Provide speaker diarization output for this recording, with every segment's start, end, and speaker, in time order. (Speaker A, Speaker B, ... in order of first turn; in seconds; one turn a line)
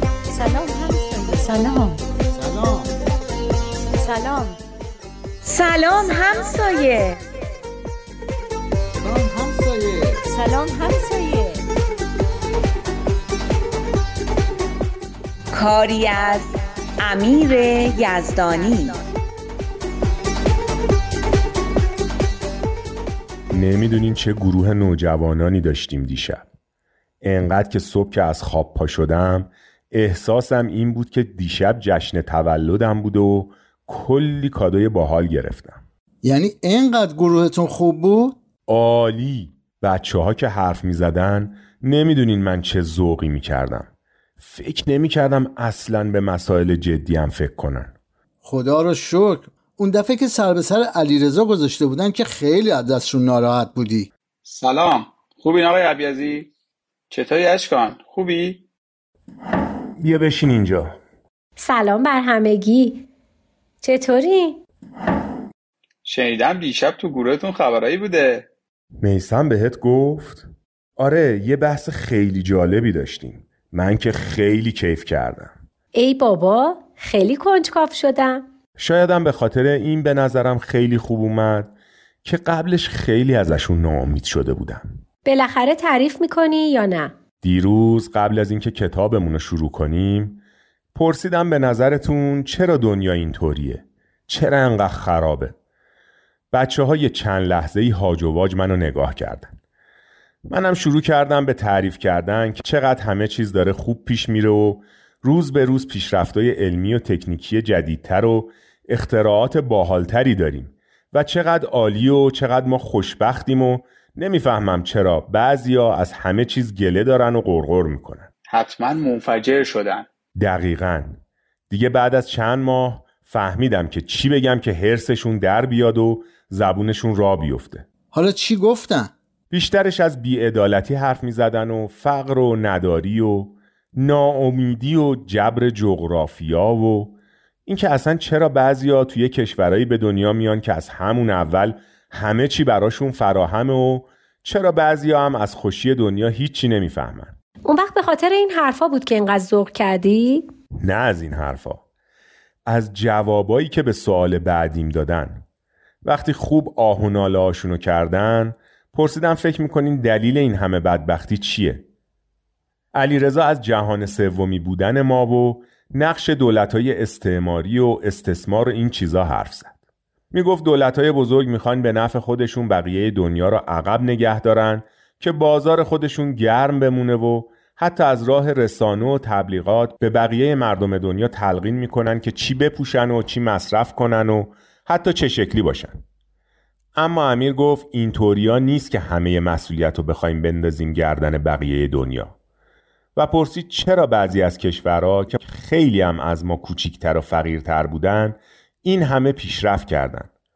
Speaker A: 0.3-2.0
Speaker B: 2.3-2.9
Speaker A: 3.9-4.6
Speaker C: 5.4-7.2
Speaker B: 9.0-10.2
Speaker A: 10.2-11.6
Speaker C: 15.5-19.0
Speaker D: 23.5-26.4
Speaker D: 27.2-35.8
Speaker B: 36.2-38.4
Speaker D: 38.7-43.9
Speaker D: 44.4-47.9
Speaker B: 48.4-54.1
Speaker E: 54.5-56.5
Speaker E: 57.1-58.6
Speaker D: 60.0-61.0
Speaker F: 61.6-63.1
Speaker F: 63.8-64.6
Speaker E: 66.0-68.5
Speaker D: 69.0-75.5
Speaker F: 75.9-78.5
Speaker D: 78.8-85.0
Speaker F: 85.2-87.1
Speaker D: 87.4-90.4
Speaker D: 91.0-95.5
Speaker D: 96.5-99.5
Speaker D: 100.5-118.3
Speaker E: 118.5-120.1
Speaker D: 120.4-127.9
Speaker B: 128.1-129.1
Speaker D: 129.5-137.2
Speaker D: 137.7-147.3
Speaker F: 147.7-150.5
Speaker D: 150.8-151.8
Speaker D: 152.7-155.4
Speaker D: 156.1-161.8
Speaker D: 162.9-169.7
Speaker D: 170.3-186.0
Speaker D: 187.0-192.3
Speaker D: 193.2-200.3